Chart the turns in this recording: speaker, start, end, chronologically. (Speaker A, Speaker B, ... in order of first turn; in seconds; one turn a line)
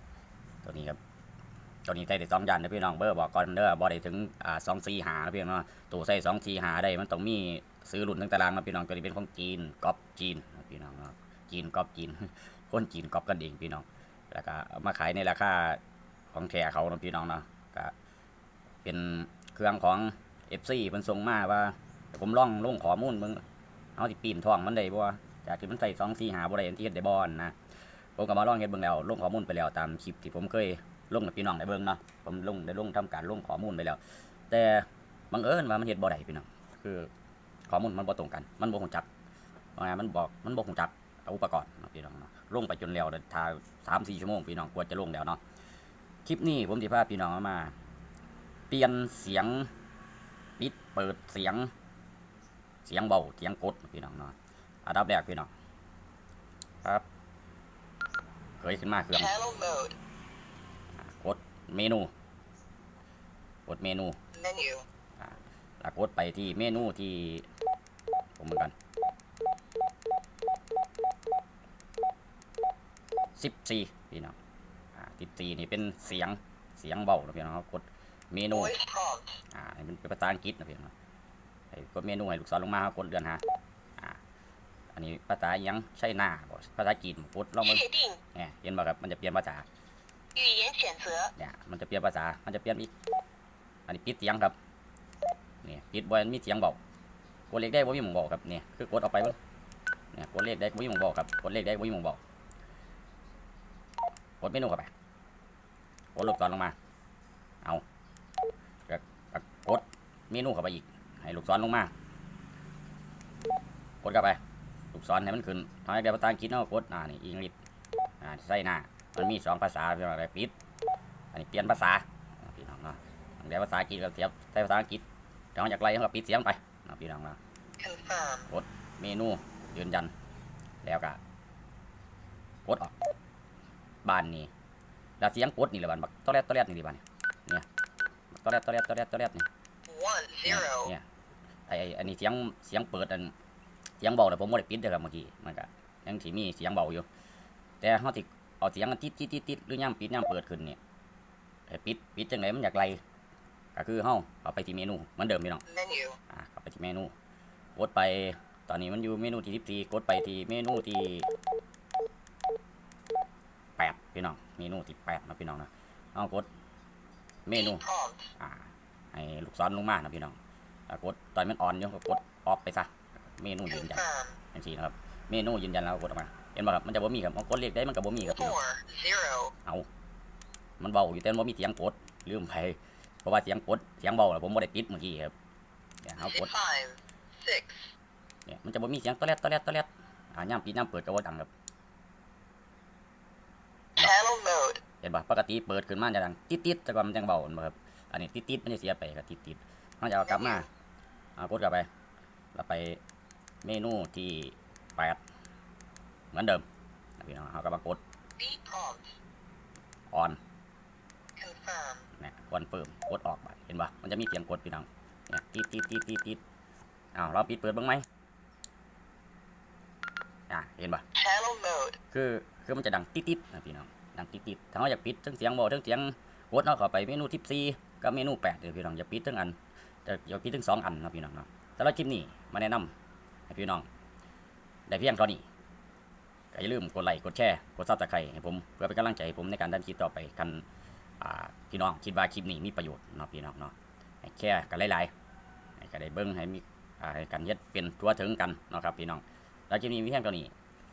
Speaker A: 0.6-1.0
Speaker A: 1.9-15.8
Speaker A: 16.3-17.9
Speaker A: 18.8-23.4
Speaker A: 24.0-27.6
Speaker A: 28.2-37.1
Speaker A: 37.7-39.1
Speaker A: 39.8-45.4
Speaker A: 46.2-47.8
Speaker A: 48.7-49.7
Speaker A: 50.6-51.7
Speaker A: 52.9-55.5
Speaker A: 58.6-59.4
Speaker B: 59.1-60.0
Speaker A: 61.0-62.1
Speaker A: 63.7-64.2
Speaker B: 64.3-64.9
Speaker A: 65.2-67.5
Speaker A: 68.4-68.7
Speaker A: 73.4-74.4
Speaker A: 75.0-78.8
Speaker B: 78.5-79.4
Speaker A: 79.5-80.9
Speaker A: 81.7-83.4
Speaker A: 84.9-89.7
Speaker B: 87.6-88.2
Speaker B: 90.3-91.3
Speaker A: 91.4-92.9
Speaker A: 93.9-94.6
Speaker A: 95.6-96.8
Speaker A: 97.5-99.4
Speaker A: 100.1-102.2
Speaker A: 104.4-104.9
Speaker A: 106.2-106.8
Speaker A: 108.9-111.9
Speaker A: 114.0-114.4
Speaker A: 114.9-117.6
Speaker A: 118.2-120.5
Speaker A: 121.3-125.0
Speaker A: 125.5-127.4
Speaker B: 127.8-128.5
Speaker A: 128.5-130.1
Speaker A: 130.8-131.2
Speaker A: 132.7-133.0
Speaker A: 134.1-134.5
Speaker A: 135.2-137.7
Speaker A: 138.3-139.5
Speaker B: 139.9-140.9
Speaker A: 140.5-141.0
Speaker A: 141.7-143.3
Speaker A: 144.0-147.1
Speaker A: 147.8-150.8
Speaker A: 151.7-153.0
Speaker A: 153.8-155.7
Speaker B: 155.7-156.2
Speaker A: 156.3-157.1
Speaker A: 157.8-161.3
Speaker A: 163.8-166.5
Speaker A: 167.5-167.8
Speaker B: 167.5-168.3
Speaker A: 168.4-170.4
Speaker A: 170.9-178.6
Speaker B: 173.7-174.4
Speaker B: 178.2-179.6
Speaker A: 180.8-185.3
Speaker A: 186.0-186.5
Speaker B: 186.2-187.9
Speaker A: 188.5-191.5
Speaker B: 194.0-194.8
Speaker A: 195.0-200.7
Speaker B: 200.2-200.6
Speaker A: 201.4-201.9
Speaker A: 202.6-203.0
Speaker A: 203.6-205.2
Speaker A: 206.3-206.6
Speaker A: 207.2-208.0
Speaker B: 208.4-209.2
Speaker A: 210.1-210.4
Speaker B: 211.4-212.1
Speaker A: 212.2-216.4
Speaker A: 217.2-218.1
Speaker A: 220.5-221.1
Speaker B: 221.2-222.0
Speaker A: 222.1-232.9
Speaker A: 233.5-233.9
Speaker A: 234.9-235.4
Speaker A: 236.5-240.6
Speaker A: 241.2-245.1
Speaker A: 245.8-250.5